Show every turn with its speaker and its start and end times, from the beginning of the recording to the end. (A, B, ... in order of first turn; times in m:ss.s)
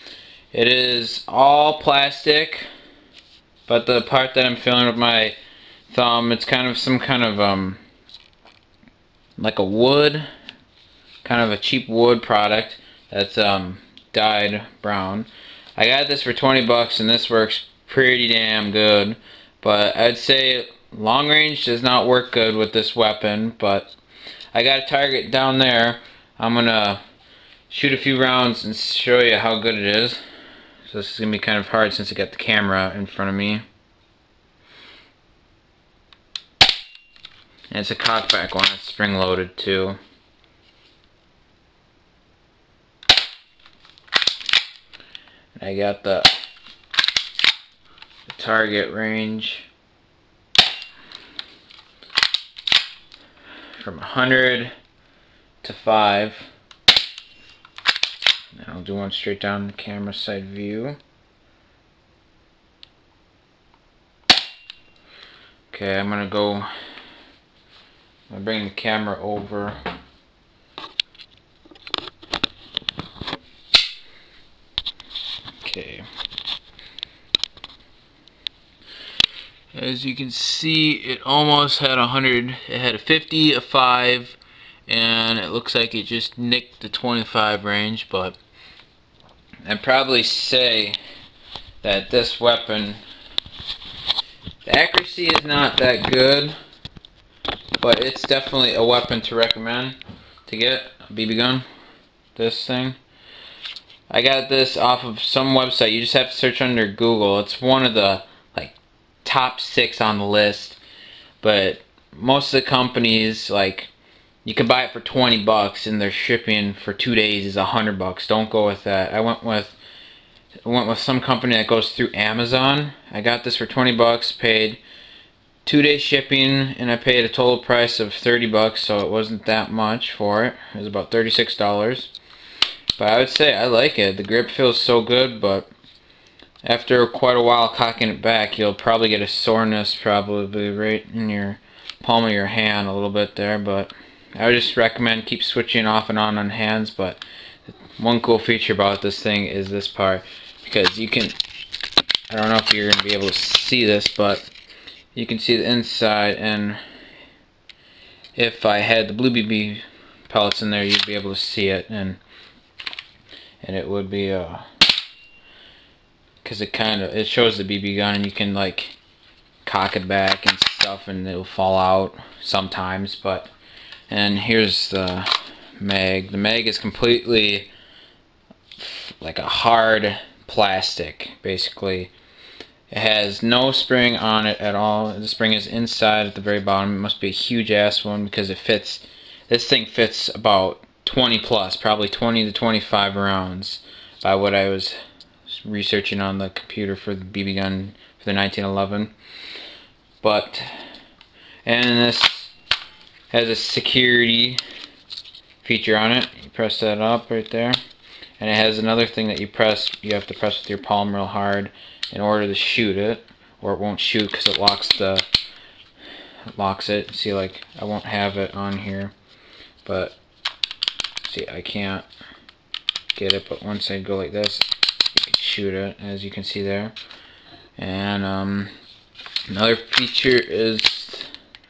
0:00.5-0:02.7 A
0:03.7-0:05.4 A
0:05.9-0:07.8 A
0:09.4-0:10.3 A
0:11.2-0:23.9 A
0:24.5-0:27.0 A
0:27.7-0:30.2 A
0:30.9-0:33.6 A
0:37.7-0:40.0 A
0:45.6-0:46.4 A
0:48.3-0:49.7 A
0:53.8-0:54.7 A
0:55.6-0:56.5 A
0:58.6-1:01.0 A
1:05.7-1:06.7 A
1:08.3-1:09.8 A
1:15.6-1:16.1 A
1:19.7-1:28.4 A
1:29.7-1:31.0 A
1:31.8-1:33.0 A
1:34.6-1:36.6 A
1:37.8-1:41.6 A
1:42.4-1:43.0 A
1:44.1-1:50.8 A
1:51.4-1:53.9 A
1:54.4-1:59.8 A
2:00.6-2:04.8 A
2:05.6-2:12.1 A
2:13.0-2:15.7 A
2:16.6-2:31.4 A
2:32.3-2:34.5 A
2:35.2-2:36.8 A
2:38.4-2:42.2 A
2:43.6-2:44.6 A
2:46.4-2:49.0 A
2:49.6-2:53.5 A
2:54.1-2:57.7 A
2:58.8-3:02.1 A
3:02.9-3:19.1 A
3:20.2-3:20.7 A
3:21.6-3:22.5 A
3:23.3-3:24.6 A
3:25.6-3:27.8 A
3:28.4-3:35.3 A
3:36.5-3:39.1 A
3:39.8-3:40.2 A
3:41.2-3:42.1 A
3:43.2-3:46.9 A
3:47.8-3:48.7 A
3:49.5-3:51.3 A